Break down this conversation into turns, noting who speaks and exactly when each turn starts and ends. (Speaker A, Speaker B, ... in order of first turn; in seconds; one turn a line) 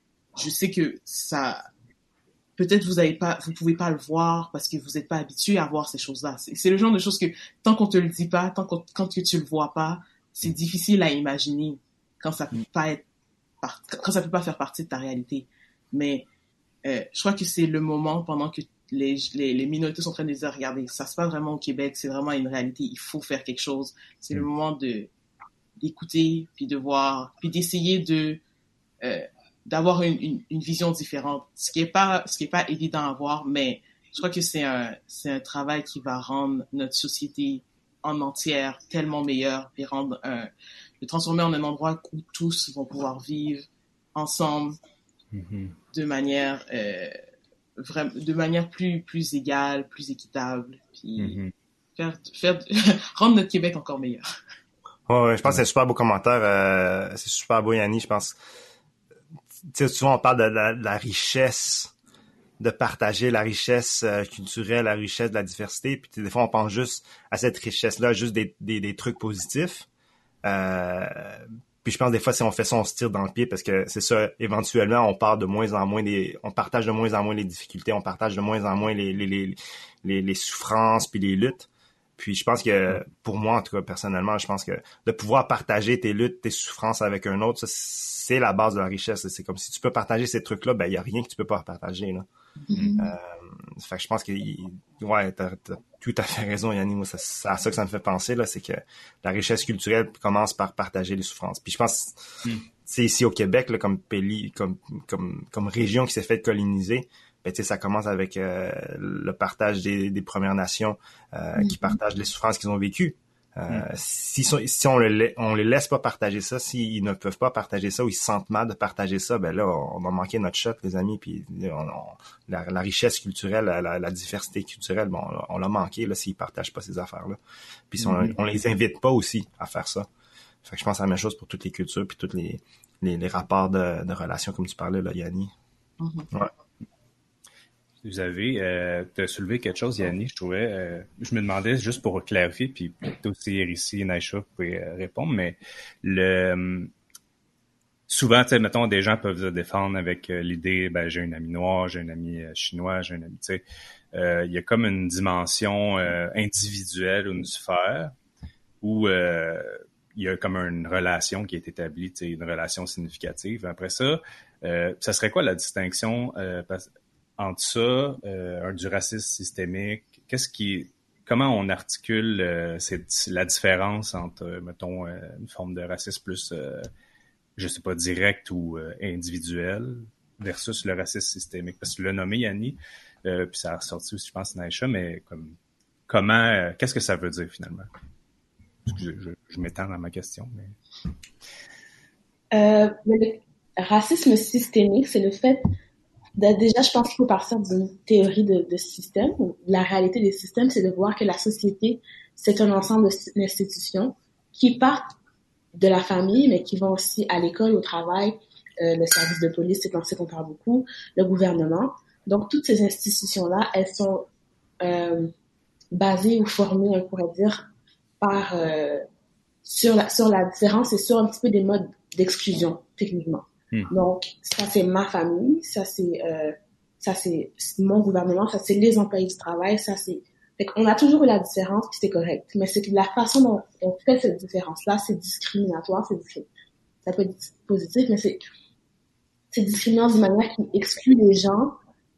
Speaker A: 0.4-1.6
Speaker A: 2.6-13.1
Speaker A: 13.6-16.3
Speaker A: 16.9-25.1
Speaker A: 25.8-28.4
Speaker A: 29.0-40.5
Speaker A: 41.0-44.8
Speaker B: 45.3-45.8
Speaker A: 45.9-47.2
Speaker A: 47.8-51.4
Speaker B: 51.2-51.5
Speaker A: 52.0-54.3
Speaker C: 55.1-58.4
Speaker C: 59.7-61.9
Speaker C: 62.6-69.9
Speaker C: 70.5-92.3
Speaker A: 92.7-93.0
Speaker D: 92.7-93.0
Speaker C: 93.0-102.2
Speaker C: 102.9-127.4
Speaker D: 111.6-112.0
Speaker C: 127.9-130.1
Speaker B: 128.0-128.3
Speaker C: 130.7-135.5
Speaker A: 136.0-136.3
Speaker B: 138.0-146.9
Speaker B: 148.1-153.6
Speaker B: 154.1-158.2
Speaker B: 158.8-166.9
Speaker B: 167.4-176.9
Speaker B: 177.6-185.6
Speaker B: 186.1-187.9
Speaker B: 188.9-190.7
Speaker D: 192.5-195.6
Speaker D: 196.4-205.1
Speaker D: 205.8-214.3
Speaker D: 214.8-215.3
Speaker D: 215.9-217.7
Speaker D: 218.2-219.0
Speaker D: 219.7-236.5
Speaker D: 237.1-238.4
Speaker D: 239.5-241.8